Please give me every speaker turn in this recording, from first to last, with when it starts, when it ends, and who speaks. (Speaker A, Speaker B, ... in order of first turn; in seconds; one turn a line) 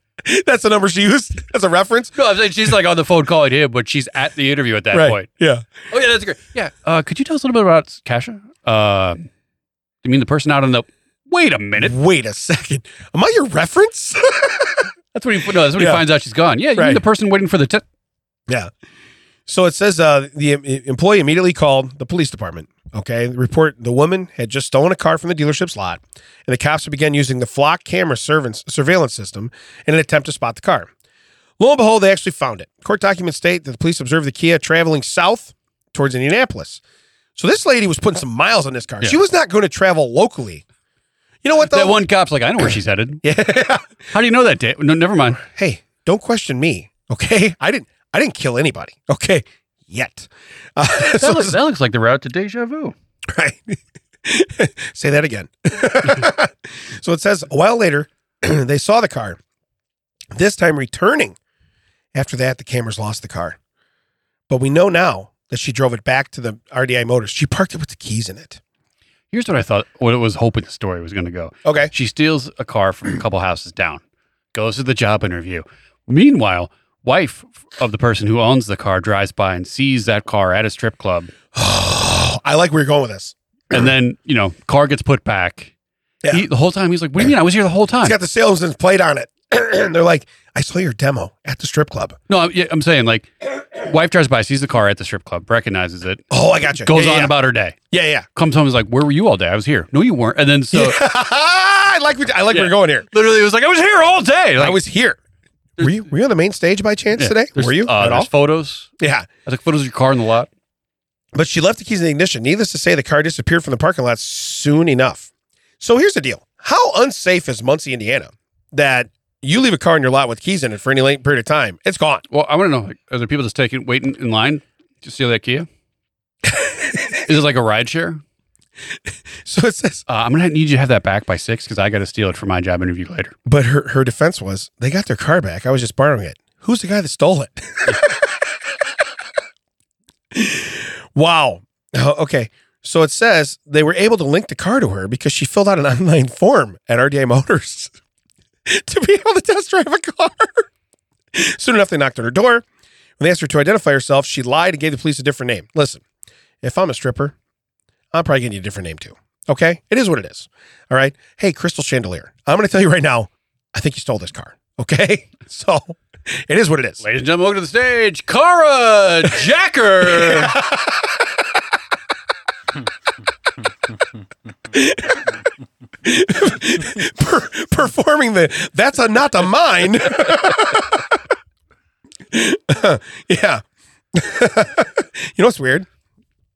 Speaker A: 0.2-2.1
Speaker B: 2.1-5.2
Speaker A: 4.9-5.7
Speaker B: 5.9-9.3
Speaker B: 10.0-11.9
Speaker A: 11.8-14.8
Speaker B: 15.1-17.8
Speaker A: 15.7-16.0
Speaker A: 16.8-17.0
Speaker A: 19.5-30.9
Speaker A: 31.6-36.8
Speaker A: 37.4-40.6
Speaker A: 41.4-42.0
Speaker B: 41.5-43.2
Speaker A: 43.2-43.8
Speaker B: 44.1-45.4
Speaker A: 45.4-51.6
Speaker B: 51.1-52.9
Speaker A: 53.3-59.4
Speaker A: 60.3-61.4
Speaker A: 62.1-63.6
Speaker A: 64.5-68.6
Speaker B: 69.3-74.0
Speaker A: 71.6-71.9
Speaker B: 74.5-81.3
Speaker A: 81.5-83.3
Speaker B: 83.7-85.7
Speaker B: 86.3-88.2
Speaker A: 88.0-92.2
Speaker B: 92.3-97.8
Speaker A: 96.3-97.3
Speaker A: 97.9-98.3
Speaker B: 98.3-101.0
Speaker A: 100.7-103.1
Speaker B: 102.5-104.8
Speaker A: 104.6-105.2
Speaker A: 105.8-108.3
Speaker B: 107.2-108.9
Speaker A: 109.0-109.3
Speaker B: 109.5-110.5
Speaker A: 111.3-115.3
Speaker A: 115.8-122.2
Speaker B: 122.3-125.7
Speaker A: 126.5-127.2
Speaker B: 127.2-128.2
Speaker A: 129.4-130.1
Speaker B: 130.1-133.3
Speaker A: 133.4-138.2
Speaker A: 140.3-147.9
Speaker A: 148.7-150.7
Speaker A: 151.3-152.6
Speaker A: 153.2-156.0
Speaker A: 156.6-157.3
Speaker A: 158.1-167.0
Speaker B: 167.0-170.6
Speaker A: 170.1-170.9
Speaker A: 174.7-175.2
Speaker A: 176.0-181.0
Speaker A: 182.3-183.6
Speaker A: 184.1-185.9